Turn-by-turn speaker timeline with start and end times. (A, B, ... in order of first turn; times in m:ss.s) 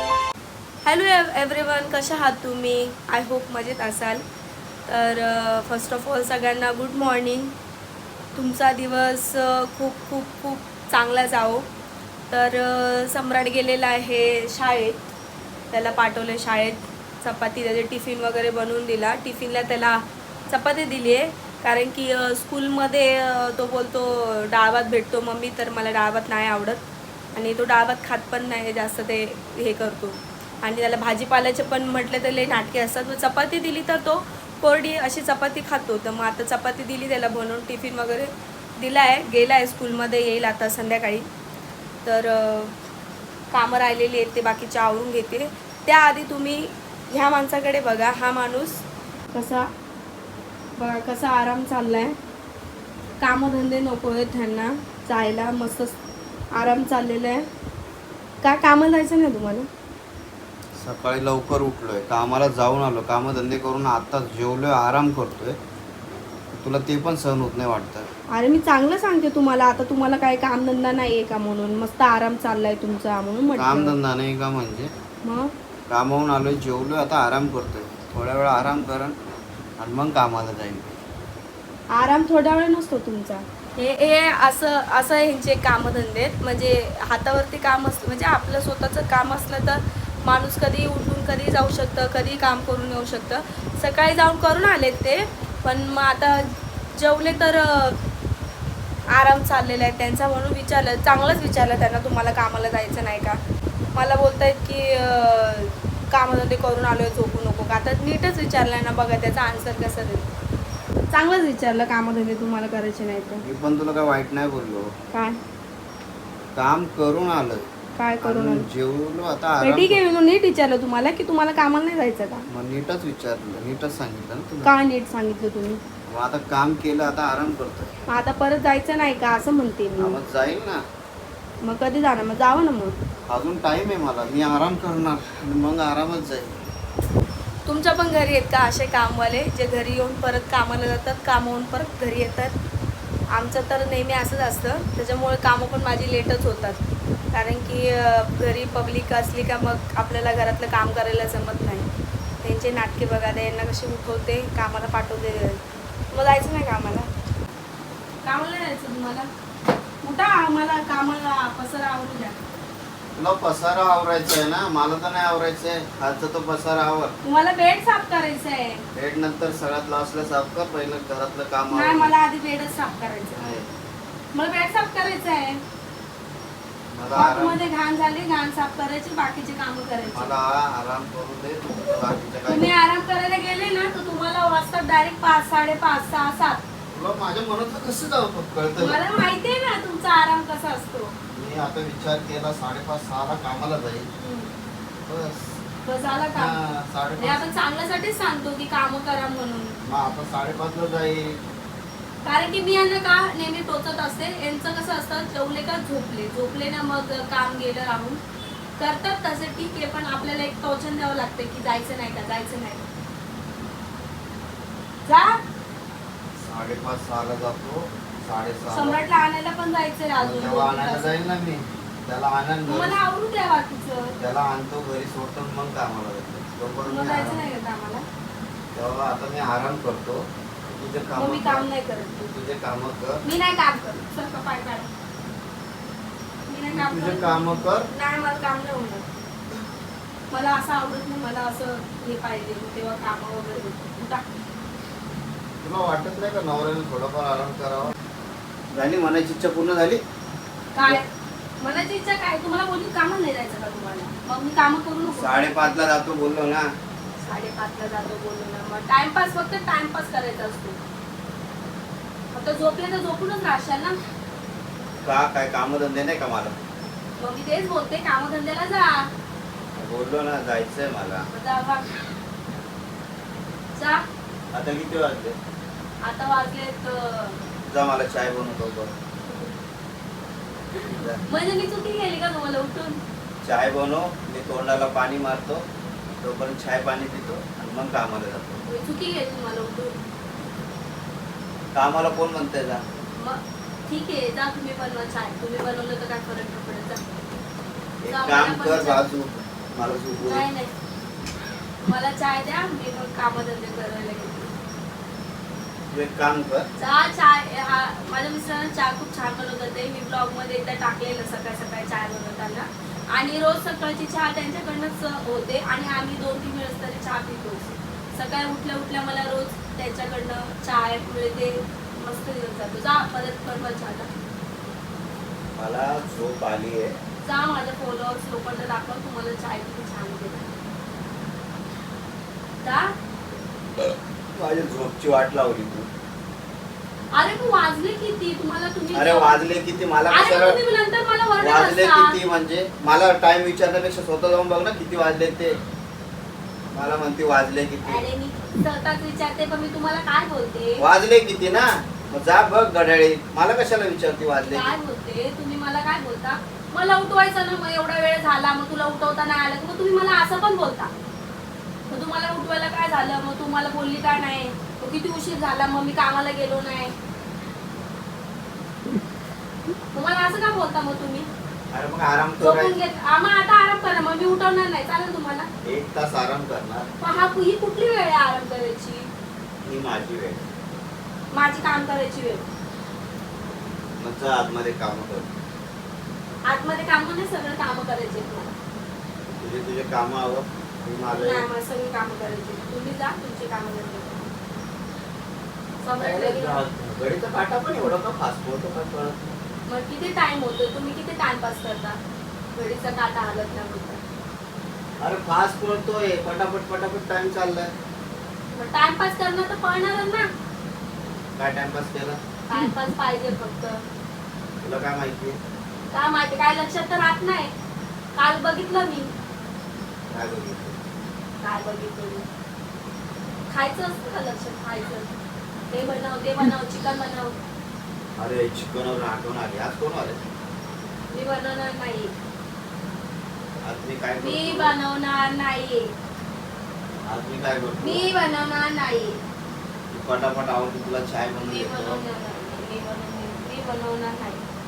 0:00.8-0:04.2 A
0:04.9-0:07.5 A
0:08.4-0:11.7 A
0:12.3-0:15.1 A
0:15.7-0:26.8 A
0:27.3-0:41.3 A
0:42.0-0:42.8 A
0:43.5-0:49.7 A
0:50.8-0:52.2 A
0:53.2-0:56.0 A
0:56.5-0:57.4 A
0:58.4-0:59.7 A
1:00.8-1:05.6 B
1:06.6-1:08.1 B
1:08.3-1:14.0 A
1:13.6-1:14.9 B
1:15.2-1:15.5 A
1:15.9-1:19.2 B
1:19.8-1:20.9 B
1:21.9-1:38.0 A
1:39.1-1:43.4 A
1:44.0-1:50.2 A
1:51.1-1:53.4 A
1:53.4-1:54.9 B
1:55.1-1:55.4 A
1:56.6-1:57.7 B
1:57.9-1:58.7 A
1:58.2-2:00.0 B
1:59.6-2:02.5 A
2:02.5-2:04.7 B
2:04.6-2:05.8 A
2:06.1-2:07.9 B
2:08.1-2:10.2 A
2:10.0-2:10.8 B
2:11.6-2:12.9 A
2:13.3-2:16.6 B
2:17.7-2:22.6 A
2:23.3-2:26.8 A
2:27.3-2:31.9 A
2:32.4-2:35.6 A
2:36.1-2:37.1 A
2:38.2-2:39.3 A
2:40.0-2:42.4 A
2:43.2-2:47.1 B
2:47.2-2:48.8 A
2:48.9-2:52.2 B
2:51.7-2:53.4 A
2:53.3-2:53.7 B
2:54.3-2:55.6 A
2:56.9-2:57.6 B
2:57.1-3:00.3 A
3:00.1-3:02.7 B
3:02.5-3:06.6 A
3:06.9-3:09.0 B
3:08.8-3:11.2 A
3:11.3-3:14.1 B
3:14.2-3:14.5 A
3:15.1-3:15.6 B
3:15.8-3:16.6 A
3:16.3-3:17.5 B
3:17.2-3:19.8 A
3:19.8-3:21.4 B
3:22.2-3:28.2 A
3:28.8-3:32.9 A
3:35.0-3:35.4 A
3:36.4-3:39.0 B
3:38.7-3:41.1 A
3:40.2-3:43.0 B
3:42.7-3:44.2 A
3:44.2-3:47.5 B
3:46.8-3:48.0 A
3:48.7-3:53.2 B
3:51.2-3:52.2 A
3:53.2-3:54.9 A
3:56.5-3:59.1 A
3:56.7-3:57.9 B
4:00.3-4:04.2 A
4:05.6-4:07.9 B
4:08.7-4:10.0 B
4:10.7-4:11.1 A
4:11.6-4:15.8 A
4:15.0-4:16.7 B
4:17.2-4:20.8 A
4:22.3-4:24.0 A
4:25.0-4:26.6 B
4:27.2-4:29.1 A
4:29.8-4:31.3 B
4:31.3-4:32.0 A
4:33.8-4:34.0 A
4:34.5-4:35.4 B
4:36.0-4:37.4 A
4:37.7-4:38.9 B
4:39.2-4:39.5 A
4:40.8-4:43.0 A
4:40.9-4:41.2 B
4:43.4-4:45.6 B
4:46.2-4:48.6 B
4:48.7-4:50.0 A
4:51.7-4:52.8 B
4:53.1-4:57.1 A
4:58.0-5:00.5 B
4:58.1-4:59.0 A
5:00.2-5:00.7 A
5:01.8-5:04.5 A
5:05.9-5:06.7 B
5:06.8-5:24.1 A
5:25.6-5:27.0 B
5:27.2-5:30.6 A
5:32.6-5:32.9 A
5:33.8-5:35.9 B
5:37.1-5:39.4 A
5:38.9-5:40.6 B
5:40.1-5:42.2 A
5:41.4-5:45.6 B
5:46.7-5:48.1 B
5:47.8-5:50.9 A
5:50.8-5:54.8 B
5:54.4-6:00.9 A
6:01.9-6:06.9 A
6:09.9-6:11.3 A
6:11.7-6:12.8 B
6:12.4-6:15.5 A
6:15.6-6:16.9 B
6:17.0-6:19.1 A
6:19.6-6:20.5 B
6:21.3-6:22.4 A
6:24.0-6:25.3 B
6:26.4-6:28.5 A
6:29.3-6:31.5 B
6:31.1-6:34.3 A
6:35.8-6:36.6 A
6:36.0-6:39.4 B
6:39.7-6:42.0 A
6:42.6-6:44.0 A
6:45.0-6:47.7 B
6:48.5-6:50.3 A
6:51.4-6:52.2 B
6:52.5-6:53.8 A
6:54.6-6:55.4 B
6:55.9-6:57.5 A
6:58.2-6:59.1 A
7:00.1-7:00.8 B
7:01.4-7:02.2 A
7:03.5-7:05.1 A
7:05.7-7:07.3 A
7:08.2-7:10.2 B
7:11.1-7:12.1 A
7:13.6-7:14.8 B
7:14.2-7:15.9 A
7:17.0-7:18.2 B
7:17.8-7:19.2 A
7:19.9-7:22.0 B
7:21.4-7:24.4 A